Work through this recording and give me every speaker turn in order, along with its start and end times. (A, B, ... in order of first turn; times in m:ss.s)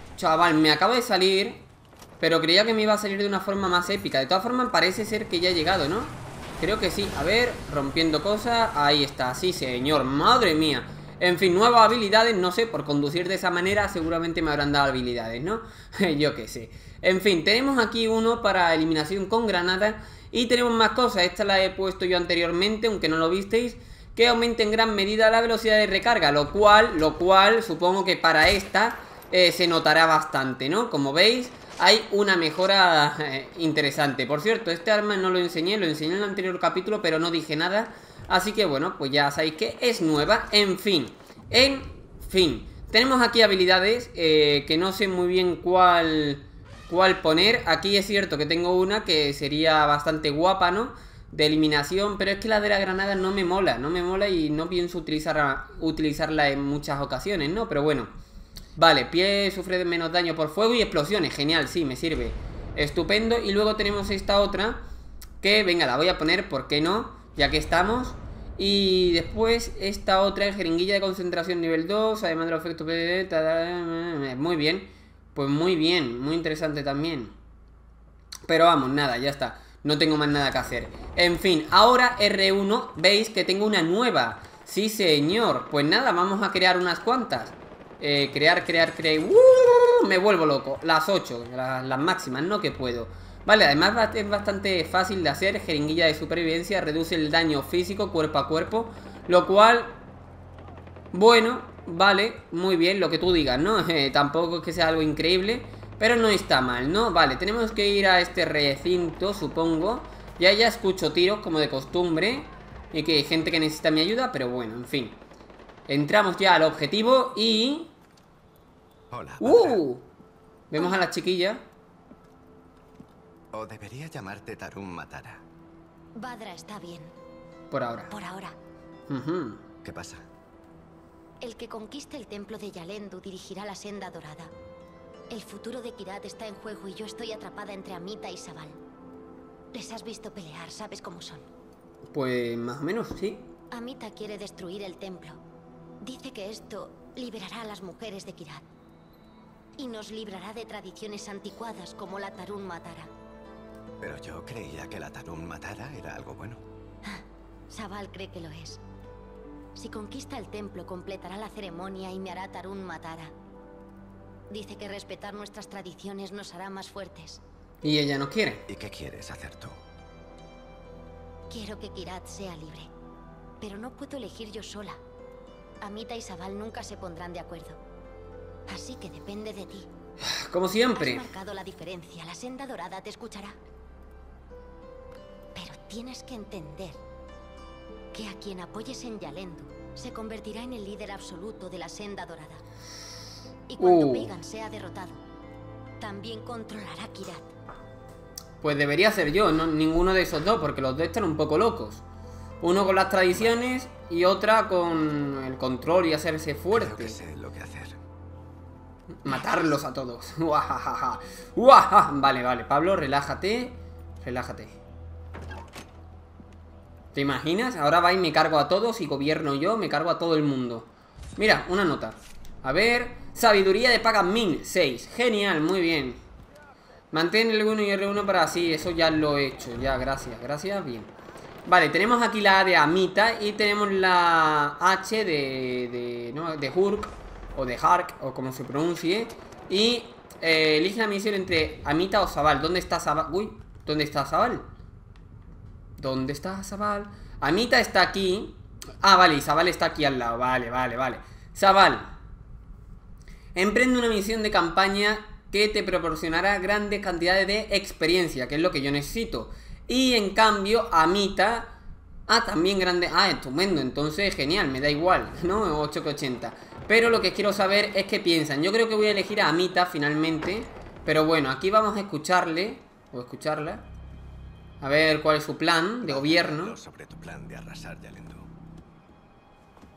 0:00.2-0:01.6 A
0:02.2-0:58.1 A
0:58.8-1:04.8 A
1:05.4-1:17.4 A
1:18.5-1:40.0 A
1:41.1-1:55.2 A
1:55.9-1:57.9 A
1:59.1-1:59.8 B
1:59.4-2:00.1 A
2:00.7-2:01.6 A
2:00.8-2:01.1 C
2:03.5-2:05.4 B
2:06.2-2:07.2 C
2:07.7-2:08.1 A
2:08.1-2:08.6 C
2:09.1-2:09.6 A
2:09.8-2:10.2 B
2:11.4-2:14.5 C
2:15.3-2:18.8 C
2:19.7-2:21.5 C
2:22.1-2:23.5 A
2:23.7-2:25.4 C
2:26.0-2:28.7 C
2:29.8-2:33.1 C
2:34.0-2:36.6 B
2:37.0-2:38.8 C
2:39.8-2:43.3 C
2:44.5-2:47.4 C
2:47.8-2:48.6 A
2:48.7-2:49.8 B
2:51.5-2:52.9 C
2:53.6-2:55.0 C
2:55.8-2:57.8 C
2:58.7-2:59.9 C
3:00.2-3:01.2 A
3:01.0-3:03.6 C
3:05.5-3:07.0 C
3:08.1-3:12.6 C
3:13.7-3:15.2 C
3:13.8-3:14.3 A
3:16.0-3:17.4 C
3:18.6-3:22.0 A
3:22.6-3:27.2 A
3:26.7-3:28.0 B
3:29.2-3:34.8 A
3:37.1-3:46.2 A
3:47.1-3:51.1 A
3:51.7-4:04.7 A
4:06.0-4:12.1 A
4:13.6-4:21.7 A
4:22.3-4:33.9 A
4:34.8-4:36.8 A
4:36.0-4:38.5 B